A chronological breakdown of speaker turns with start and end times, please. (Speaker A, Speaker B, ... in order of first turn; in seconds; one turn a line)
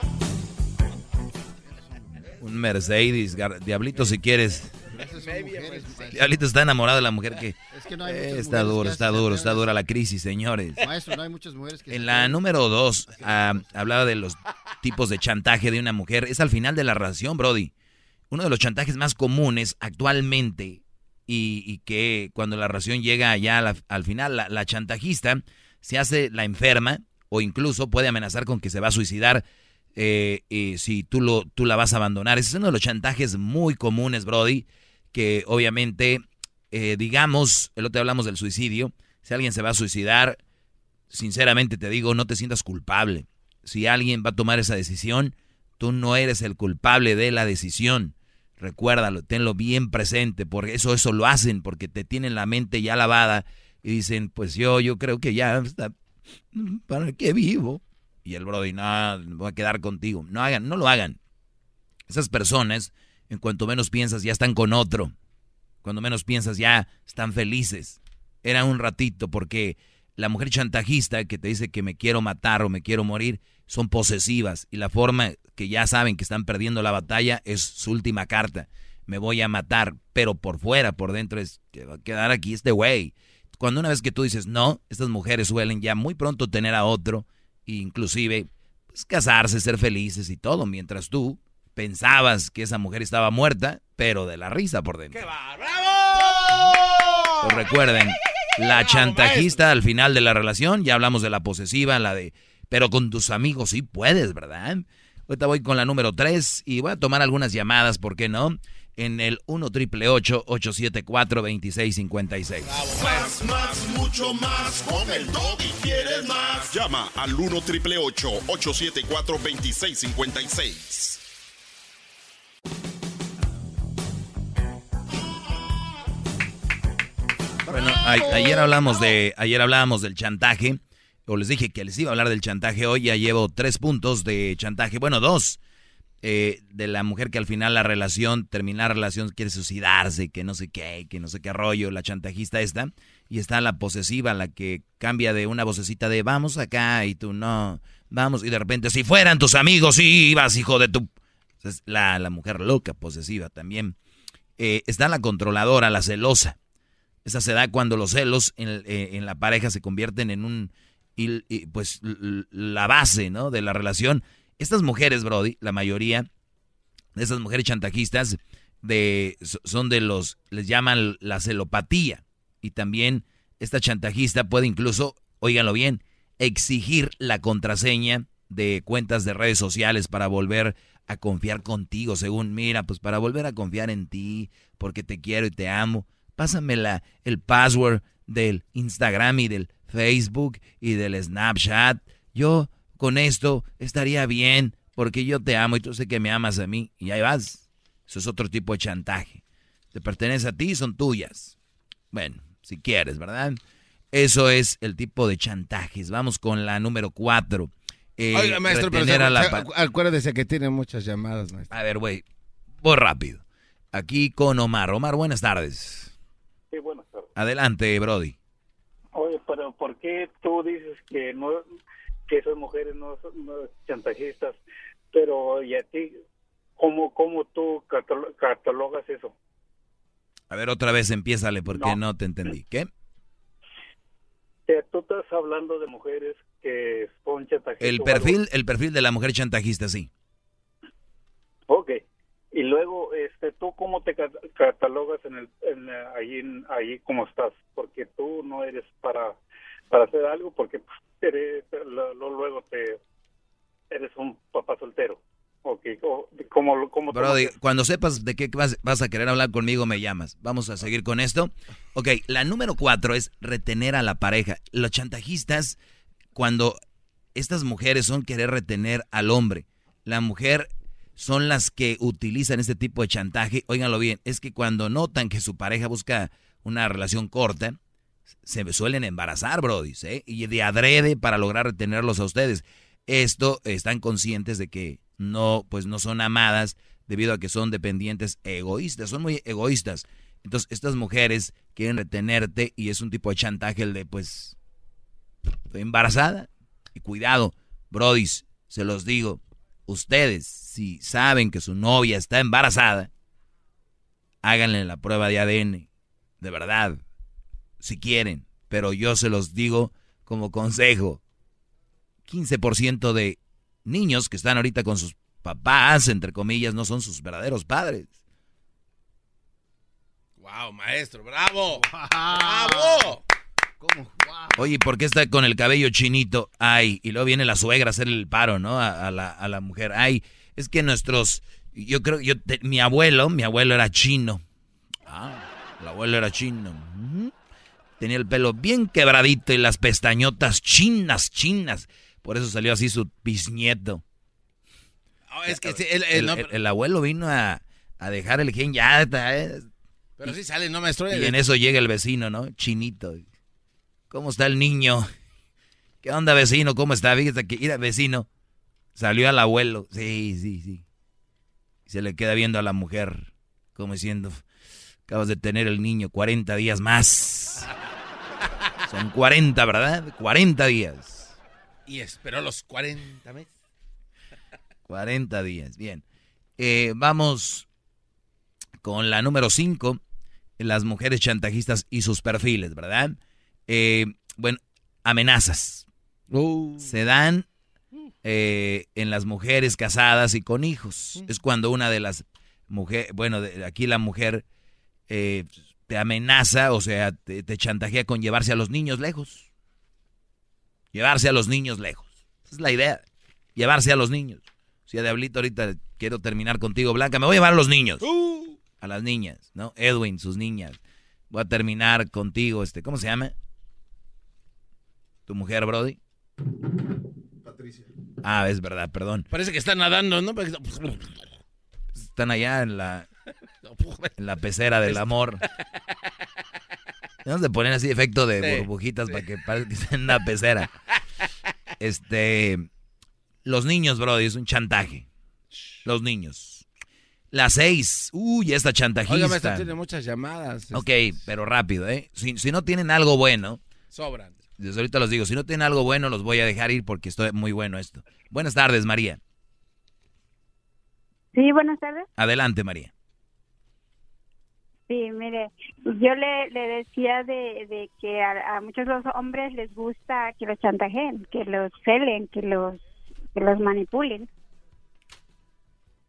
Speaker A: 1.8-2.2
Speaker B: 2.4-4.7
Speaker A: 4.8-6.4
Speaker C: 4.9-6.2
Speaker B: 6.1-10.8
Speaker A: 7.7-9.7
Speaker A: 10.8-12.4
Speaker B: 11.9-17.7
Speaker A: 13.1-13.7
Speaker B: 18.3-29.4
Speaker B: 29.9-40.4
Speaker B: 41.1-55.9
Speaker B: 56.5-61.2
Speaker B: 62.1-65.1
Speaker B: 65.8-95.3
Speaker C: 95.1-97.8
Speaker B: 97.4-112.8
Speaker C: 98.6-99.6
Speaker C: 112.6-116.7
Speaker D: 112.9-121.2
Speaker A: 127.7-129.1
Speaker B: 127.7-135.6
Speaker B: 136.2-151.1
Speaker B: 151.6-153.9
Speaker B: 154.6-156.6
Speaker B: 157.2-166.3
Speaker B: 167.2-199.4
Speaker B: 199.9-201.5
Speaker B: 202.1-203.6
Speaker B: 204.1-209.7
Speaker C: 208.3-211.7
Speaker B: 211.7-212.2
Speaker B: 212.8-216.1
Speaker E: 216.7-217.3
Speaker B: 217.3-218.3
Speaker E: 219.1-221.6
Speaker E: 222.3-224.6
Speaker E: 225.1-226.2
Speaker E: 226.8-229.3
Speaker B: 230.5-232.9
Speaker E: 234.7-238.4
Speaker B: 237.8-240.1
Speaker E: 241.7-242.0
Speaker E: 242.5-249.4
Speaker E: 249.9-253.0
Speaker E: 253.9-257.5
Speaker B: 257.1-265.8
Speaker B: 266.4-266.8
Speaker B: 267.3-277.8
Speaker B: 278.4-294.6
Speaker B: 295.7-303.1
Speaker B: 304.4-305.9
Speaker B: 306.4-307.0
Speaker B: 307.8-311.2
Speaker B: 312.3-318.1
Speaker C: 320.4-323.2
Speaker A: 321.7-323.2
Speaker A: 323.8-324.7
Speaker B: 324.6-334.4
Speaker B: 335.1-337.3
Speaker B: 338.0-344.0
Speaker C: 345.3-346.5
Speaker B: 345.4-349.7
Speaker C: 350.2-351.4
Speaker B: 351.1-353.2
Speaker B: 354.1-355.1
Speaker B: 356.0-358.3
Speaker B: 358.9-360.8
Speaker B: 361.9-364.4
Speaker B: 365.1-367.7
Speaker B: 368.9-371.4
Speaker C: 371.9-373.5
Speaker B: 374.9-376.0
Speaker B: 376.6-377.7
Speaker B: 378.8-380.0
Speaker B: 380.6-383.2
Speaker B: 383.7-385.9
Speaker C: 386.3-386.9
Speaker B: 386.8-387.4
Speaker B: 388.2-394.4
Speaker B: 395.1-399.5
Speaker B: 400.9-403.0
Speaker B: 403.6-408.1
Speaker C: 408.0-408.6
Speaker B: 408.8-410.8
Speaker B: 411.3-413.3
Speaker B: 415.3-416.0
Speaker A: 417.4-417.9
Speaker B: 418.2-419.2
Speaker C: 419.3-421.2
Speaker B: 421.9-423.1
Speaker C: 423.6-424.1
Speaker B: 424.2-425.4
Speaker C: 424.8-425.8
Speaker B: 427.2-430.7
Speaker C: 428.4-429.3
Speaker B: 431.8-432.7
Speaker B: 433.4-435.1
Speaker B: 435.8-436.6
Speaker B: 437.3-439.7
Speaker C: 439.1-440.9
Speaker B: 440.7-443.6
Speaker C: 443.9-444.4
Speaker B: 444.6-449.2
Speaker F: 451.3-452.1
Speaker B: 452.2-452.9
Speaker F: 454.9-462.8
Speaker F: 463.3-464.3